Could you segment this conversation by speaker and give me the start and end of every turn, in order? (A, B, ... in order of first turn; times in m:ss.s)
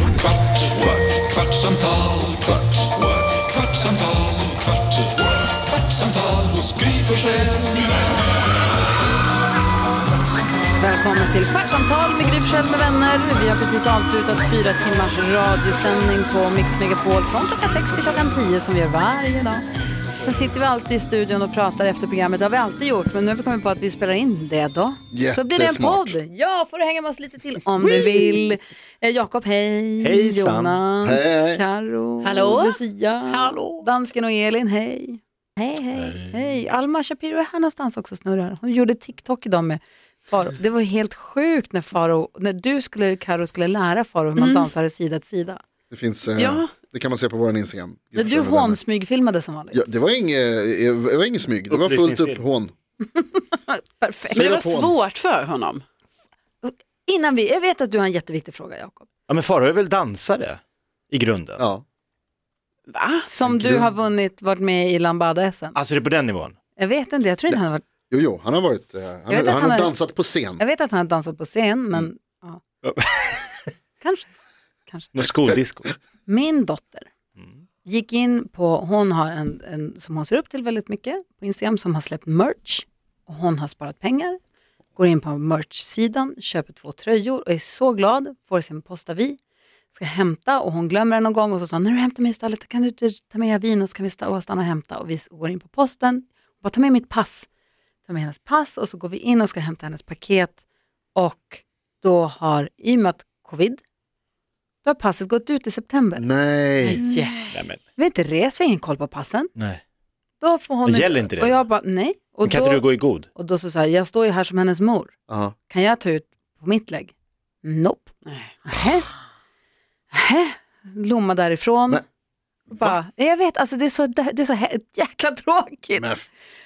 0:00.3-0:04.8 A
0:06.0-0:07.6 A
0:10.8-0:19.6 B
0:20.2-0:45.6 B
0:25.1-0:26.2 C
0:27.8-0:28.2 D
0:30.0-0:30.8 D
0:31.0-0:31.6 C
0:32.2-0:32.8 E
0:44.4-0:44.7 E
0:45.9-0:48.8 C
0:46.4-0:46.7 E
0:48.1-0:49.9 B
0:49.7-0:52.7 C
0:51.7-0:52.4 D
0:53.1-0:54.5 B
0:54.3-0:55.8 E
0:54.3-0:54.9 C
0:56.6-0:59.1 B
0:59.3-1:00.6 D
1:01.1-1:01.6 D
1:01.6-1:01.8 C
1:02.9-1:03.3 E
1:03.2-1:05.8 B
1:03.4-1:03.9 C
1:05.7-1:06.5 D
1:06.8-1:07.8 B
1:07.5-1:10.6 C
1:09.3-1:10.0 B
1:10.6-1:12.6 B
1:12.8-1:13.5 D
1:14.0-1:14.3 B
1:14.9-1:15.2 B
1:15.1-1:15.9 D
1:16.2-1:17.1 B
1:17.8-1:24.4 B
1:25.0-1:29.4 B
1:29.9-1:37.5 B
1:38.0-1:40.6 B
1:41.1-1:43.8 B
1:44.8-1:46.2 B
1:46.2-1:47.0 C
1:46.8-1:47.2 B
1:46.9-1:47.4 E
1:47.5-1:47.8 D
1:48.0-1:49.5 B
1:50.4-1:55.1 B
1:50.8-1:51.6 D
1:52.4-1:53.3 D
1:55.3-1:55.5 C
1:55.7-1:58.1 B
1:58.2-1:58.5 E
1:58.6-1:59.1 B
2:00.1-2:02.0 B
2:02.7-2:06.1 B
2:02.7-2:03.0 C
2:06.0-2:06.2 C